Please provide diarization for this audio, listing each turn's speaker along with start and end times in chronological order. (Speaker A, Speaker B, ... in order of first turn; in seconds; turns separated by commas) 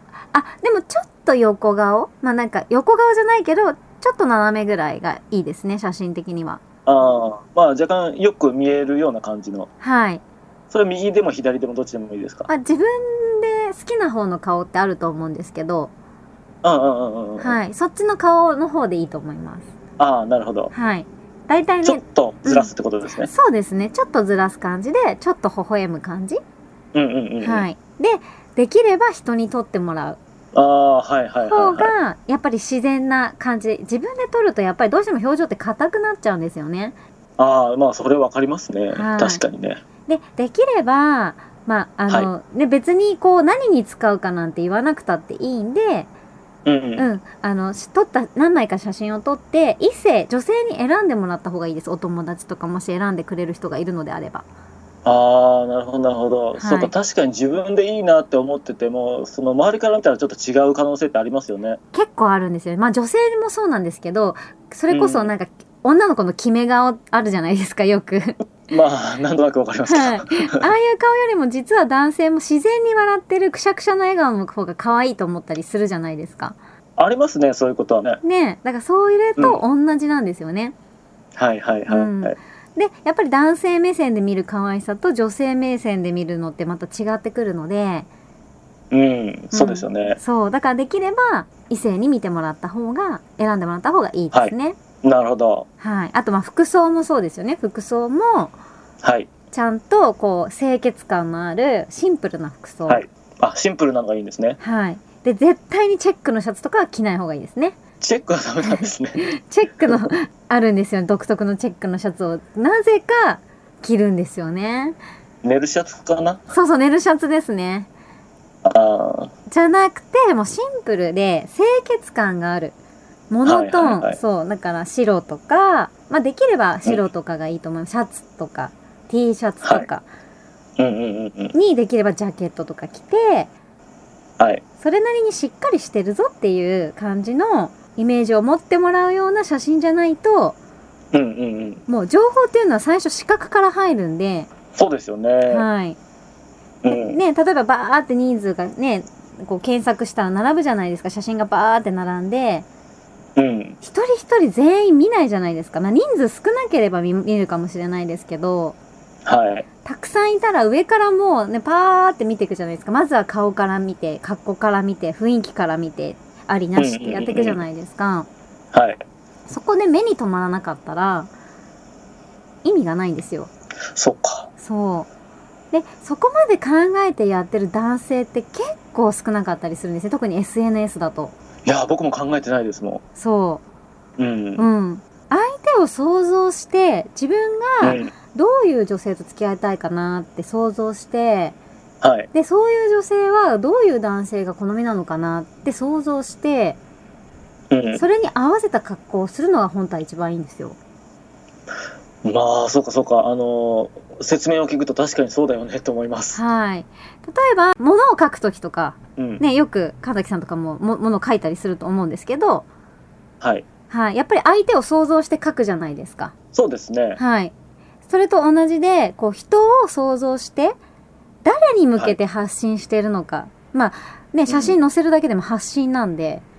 Speaker A: 0.3-6.6, Speaker B: 6.9-9.7, Speaker A: 9.8-10.2, Speaker B: 10.7-12.5, Speaker A: 12.5-15.9, Speaker B: 16.6-17.6, Speaker A: 17.4-19.7, Speaker B: 20.0-20.7, Speaker A: 20.7-22.7, Speaker B: 21.8-23.3, Speaker A: 23.3-26.4, Speaker B: 26.9-27.7, Speaker A: 27.4-30.2, Speaker B: 30.5-31.9, Speaker A: 31.4-37.0, Speaker B: 37.4-39.8, Speaker A: 38.9-39.4, Speaker A: 40.1-46.1, Speaker B: 46.6-47.1, Speaker A: 47.0-54.5, Speaker B: 55.0-61.8, Speaker A: 56.6-56.9, Speaker A: 61.9-68.4, Speaker B: 64.9-65.3, Speaker B: 68.7-70.7, Speaker A: 69.9-76.6, Speaker B: 77.0-78.2, Speaker A: 78.2-80.7, Speaker B: 81.4-82.3, Speaker A: 81.9-88.1, Speaker B: 88.9-90.2, Speaker A: 89.5-94.8, Speaker B: 94.3-95.7, Speaker A: 95.8-98.5, Speaker B: 99.0-99.3, Speaker A: 99.5-103.0, Speaker B: 102.9-104.6, Speaker A: 104.6-107.8, Speaker B: 108.0-109.2, Speaker A: 108.7-115.0, Speaker B: 115.4-116.4, Speaker A: 116.5-117.9, Speaker B: 118.6-119.3, Speaker A: 119.5-122.8, Speaker A: 123.3-130.1, Speaker B: 123.5-124.2, Speaker B: 130.8-131.6, Speaker A: 131.5-133.5, Speaker A: 134.8-140.6, Speaker B: 141.1-141.8, Speaker A: 141.9-144.5, Speaker B: 144.8-145.7, Speaker A: 145.5-146.0, Speaker B: 146.8-147.2, Speaker A: 146.9-152.7, Speaker B: 153.4-153.8, Speaker A: 153.8-158.8, Speaker B: 159.2-159.7, Speaker A: 159.8-168.3, Speaker B: 166.8-167.6, Speaker B: 168.7-169.0, Speaker A: 169.5-171.3, Speaker A: 172.6-173.5, Speaker B: 173.9-174.5, Speaker A: 174.6-175.1, Speaker A: 175.7-181.3, Speaker B: 181.7-183.0, Speaker A: 183.2-183.6, Speaker B: 184.2-184.7, Speaker A: 184.6-191.6, Speaker B: 187.8-188.1, Speaker B: 192.0-192.3, Speaker A: 192.3-196.8, Speaker B: 197.7-198.0, Speaker A: 198.0-200.8, Speaker B: 202.2-206.4, Speaker A: 206.3-212.7, Speaker B: 209.2-209.4, Speaker A: 213.9-216.3, Speaker B: 216.5-217.2, Speaker A: 217.2-217.5, Speaker A: 218.1-220.8, Speaker A: 221.4-226.4, Speaker B: 224.5-224.8